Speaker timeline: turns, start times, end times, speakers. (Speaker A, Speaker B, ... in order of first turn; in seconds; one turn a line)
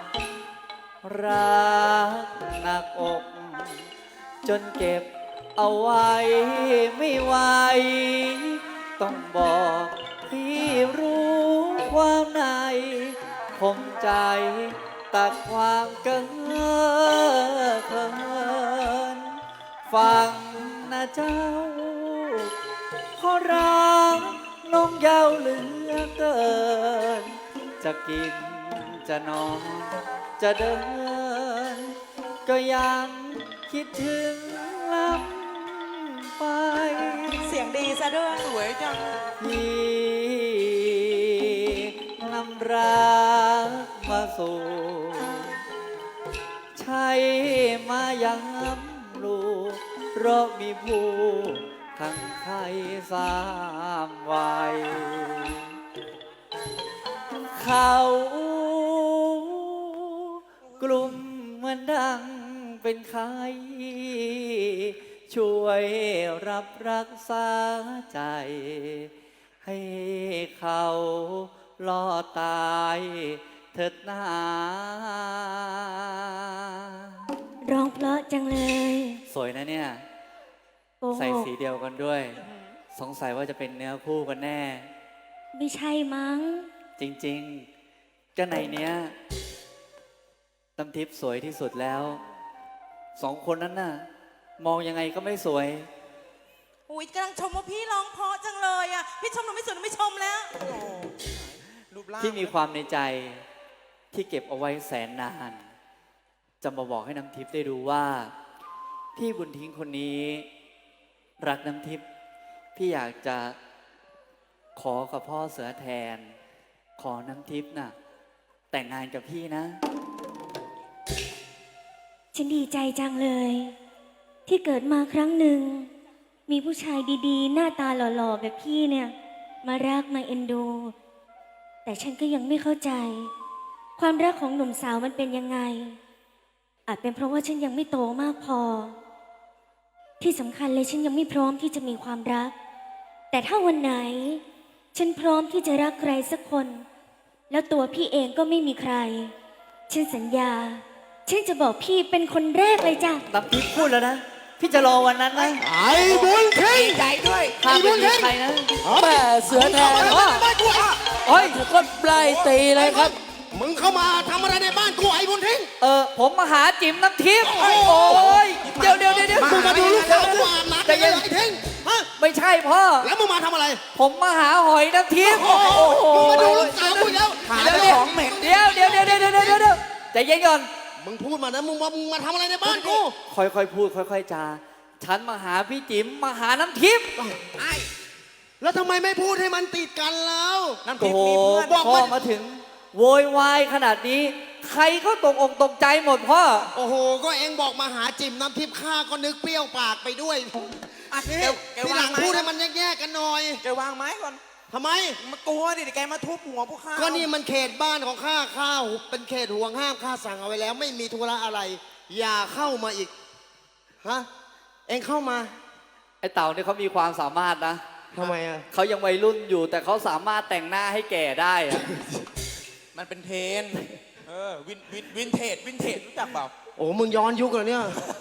Speaker A: 1.0-3.9
Speaker A: 4.4-22.5
Speaker A: 23.2-37.5
Speaker B: 37.4-38.6
Speaker C: 38.4-39.1
Speaker A: 39.4-45.6
Speaker A: 46.8-55.6
Speaker A: 57.5-59.6
Speaker A: 60.8-69.1
Speaker A: 69.6-77.1
Speaker D: 77.7-79.2
Speaker A: 79.3-80.0
Speaker D: 81.0-81.5
Speaker A: 81.1-82.4
Speaker A: 82.9-84.9
Speaker D: 85.5-86.7
Speaker A: 87.0-87.7
Speaker A: 88.3-89.2
Speaker A: 90.8-92.2
Speaker A: 93.2-94.0
Speaker A: 94.6-95.9
Speaker B: 96.9-100.5
Speaker C: 100.6-102.5
Speaker A: 102.2-103.4
Speaker A: 104.1-105.7
Speaker A: 106.6-108.3
Speaker A: 109.2-110.5
Speaker A: 111.4-112.0
Speaker A: 112.7-113.6
Speaker A: 114.8-116.3
Speaker A: 117.0-117.9
Speaker A: 118.7-119.8
Speaker D: 122.3-123.7
Speaker D: 124.5-125.9
Speaker D: 126.5-130.9
Speaker D: 131.8-133.3
Speaker D: 134.0-136.0
Speaker D: 136.9-138.9
Speaker D: 140.2-142.5
Speaker D: 143.3-144.4
Speaker D: 144.9-146.8
Speaker D: 147.5-149.3
Speaker D: 149.9-153.2
Speaker A: 153.3-155.6
Speaker E: 155.6-157.1
Speaker C: 155.9-157.5
Speaker A: 157.6-158.7
Speaker E: 157.6-158.3
Speaker E: 158.8-161.0
Speaker F: 159.0-160.2
Speaker A: 159.9-160.4
Speaker A: 161.2-161.6
Speaker F: 161.3-163.1
Speaker E: 162.7-165.7
Speaker A: 165.8-171.3
Speaker E: 167.5-168.4
Speaker C: 169.3-170.4
Speaker E: 169.3-172.1
Speaker A: 172.2-173.1
Speaker E: 173.0-173.8
Speaker A: 173.9-180.7
Speaker E: 175.2-178.3
Speaker C: 175.9-176.6
Speaker C: 177.4-179.6
Speaker E: 181.0-183.1
Speaker C: 182.7-183.0
Speaker A: 183.2-187.1
Speaker C: 187.6-187.8
Speaker E: 188.6-190.8
Speaker C: 190.8-191.7
Speaker A: 191.0-196.7
Speaker E: 191.7-192.1
Speaker E: 196.7-200.6
Speaker C: 201.1-202.5
Speaker E: 201.3-203.6
Speaker C: 203.6-204.4
Speaker E: 204.7-205.2
Speaker C: 205.2-207.3
Speaker E: 206.9-213.1
Speaker E: 214.0-214.3
Speaker E: 214.9-215.5
Speaker A: 216.2-217.8
Speaker E: 218.1-218.6
Speaker A: 218.7-221.9
Speaker C: 222.9-226.5
Speaker E: 226.8-228.0